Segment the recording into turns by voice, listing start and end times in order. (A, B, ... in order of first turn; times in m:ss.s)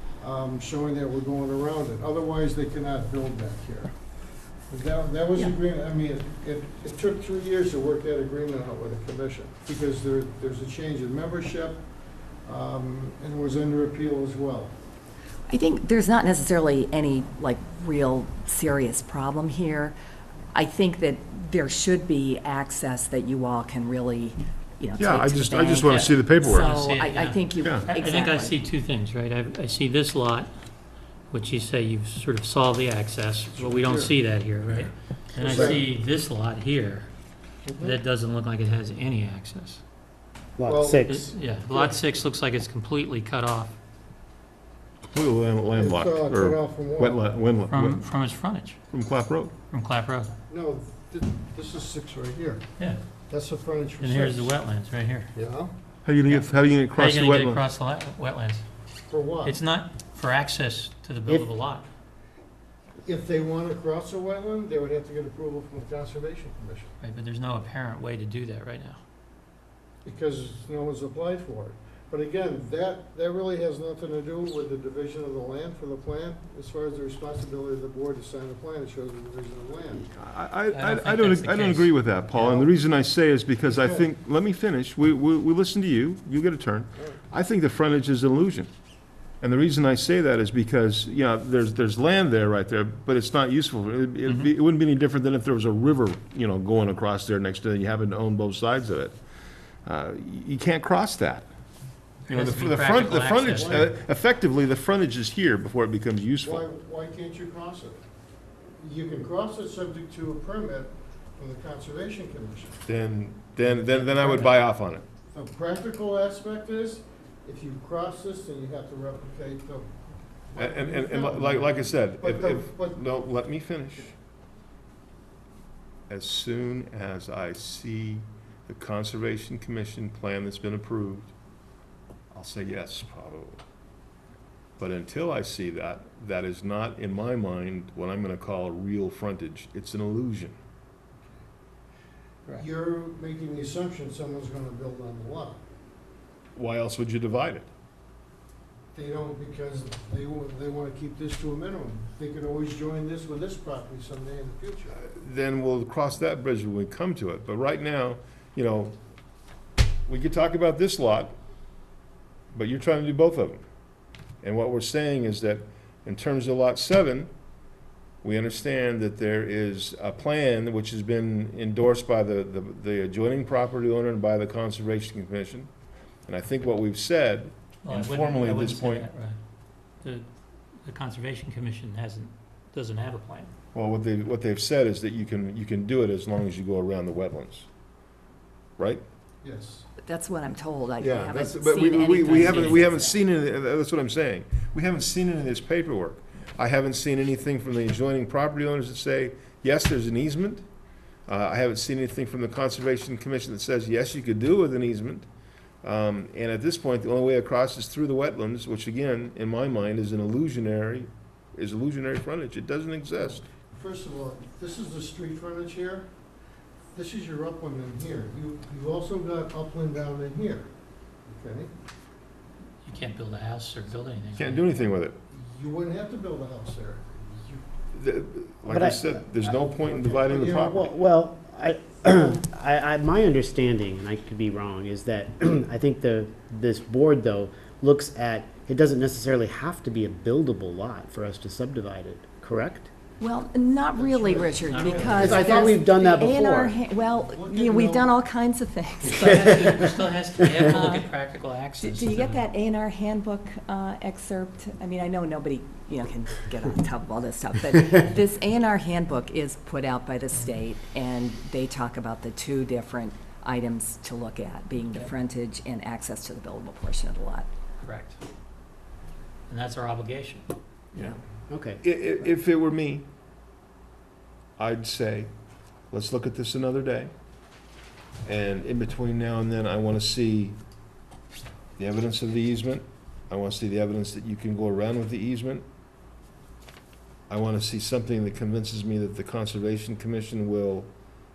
0:00.2-0:04.0 A
0:04.7-0:11.8 A
0:12.4-0:14.7 A
0:15.5-0:19.9 B
0:20.5-0:28.5 B
0:25.0-0:26.7 C
0:25.9-0:30.5 D
0:31.3-0:37.1 D
0:33.5-0:34.1 A
0:35.4-0:35.8 A
0:35.4-0:35.8 C
0:37.6-0:38.0 A
0:37.8-0:39.8 D
0:40.6-0:41.3 E
0:40.6-0:41.1 A
0:41.1-0:43.7 D
0:41.7-0:42.0 A
0:45.1-0:48.0 C
0:45.7-0:47.3 A
0:47.7-0:48.8 D
0:48.9-0:49.5 C
0:49.7-0:50.3 D
0:50.5-0:52.6 A
0:53.3-0:54.5 A
0:54.0-0:55.3 D
0:55.3-0:55.7 A
0:56.0-0:57.6 C
0:56.3-0:58.6 D
0:59.1-0:59.6 A
0:59.4-1:01.8 D
1:03.0-1:06.9 A
1:07.0-1:09.0 D
1:10.0-1:20.0 A
1:20.1-1:28.7 C
1:20.7-1:22.6 D
1:22.4-1:22.7 A
1:23.6-1:24.1 A
1:29.4-1:39.1 C
1:34.3-1:34.5 D
1:39.8-1:41.5 C
1:42.3-1:43.9 D
1:42.3-1:46.6 C
1:43.1-1:43.9 A
1:46.4-1:48.0 A
1:48.8-1:52.8 A
1:52.9-1:55.0 C
1:53.9-1:54.6 D
1:55.3-2:03.0 A
2:00.6-2:04.1 C
2:06.1-2:11.3 C
2:12.3-2:13.6 C
2:14.8-2:20.5 C
2:22.5-2:25.6 A
2:26.5-2:27.7 C
2:28.9-2:35.0 A
2:35.0-2:39.0 C
2:40.1-2:41.3 C
2:42.5-2:43.6 C
2:44.4-2:47.3 C
2:48.2-2:55.7 C
2:56.3-2:59.1 C
2:57.8-2:59.4 D
3:00.0-3:00.3 D
3:00.8-3:03.5 D
3:03.7-3:07.6 C
3:09.4-3:09.8 A
3:10.0-3:13.2 B
3:11.0-3:20.6 C
3:12.2-3:12.8 D
3:21.3-3:25.3 C
3:25.8-3:33.4 C
3:33.7-3:36.1 A
3:36.9-3:40.7 A
3:41.3-3:41.7 A
3:42.8-3:44.6 D
3:44.4-3:45.2 C
3:45.3-3:47.6 A
3:47.9-3:50.9 C
3:48.6-3:49.1 E
3:49.8-3:50.9 A
3:50.8-4:02.9 E
4:03.2-4:09.3 B
4:04.0-4:05.7 A
4:04.6-4:05.4 D
4:05.1-4:06.8 E
4:07.2-4:08.1 A
4:09.1-4:12.4 D
4:09.2-4:09.9 E
4:10.7-4:11.1 B
4:11.8-4:27.5 B
4:27.8-4:28.2 D
4:29.5-4:30.5 D
4:31.5-4:31.8 E
4:31.8-4:33.0 C
4:34.6-4:35.3 C
4:35.9-4:37.1 C
4:38.2-4:40.6 C
4:41.8-4:45.6 C
4:47.3-4:50.9 C